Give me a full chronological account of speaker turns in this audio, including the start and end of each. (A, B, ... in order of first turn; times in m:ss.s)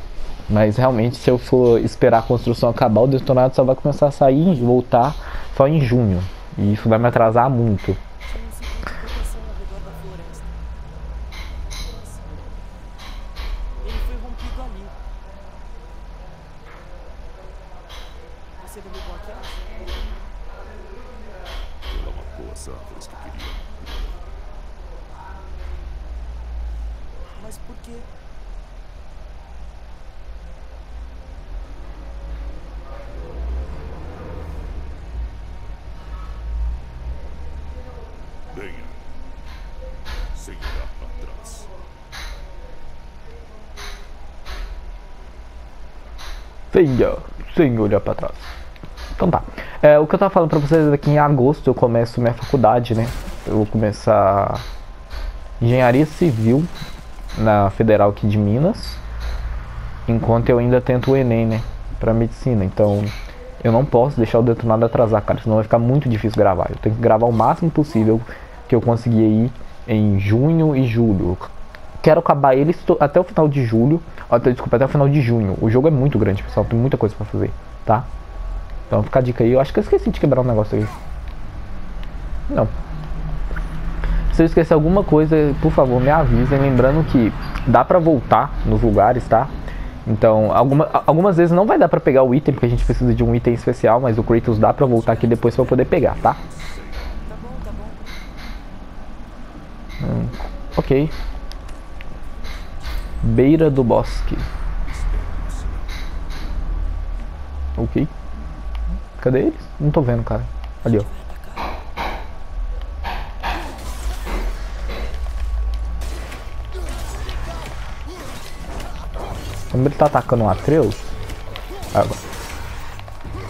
0:00.5-0:08.0 A
0:08.2-0:10.5 B
0:11.8-0:12.2 B
0:13.8-0:14.9 B
0:18.6-0:19.9 B
0:21.8-0:24.2 C
0:27.4-0:28.1 B
0:38.5-0:39.0 C
0:40.3-0:41.7 C
0:46.7-0:48.5 A
0:49.2-0:54.6 A
0:55.6-0:56.7 A
0:57.4-0:59.0 A
1:00.1-1:11.5 A
1:12.0-1:18.1 A
1:18.9-1:20.9 A
1:24.3-1:29.5 A
1:30.1-1:36.4 A
1:34.6-1:37.2 C
1:37.3-1:38.2 B
1:40.0-1:41.1 A
1:43.2-1:44.5 A
1:44.9-1:46.1 C
1:47.8-1:48.1 A
1:49.2-1:51.1 A
1:51.0-1:51.7 B
1:59.7-2:01.1 A
2:01.9-2:02.2 A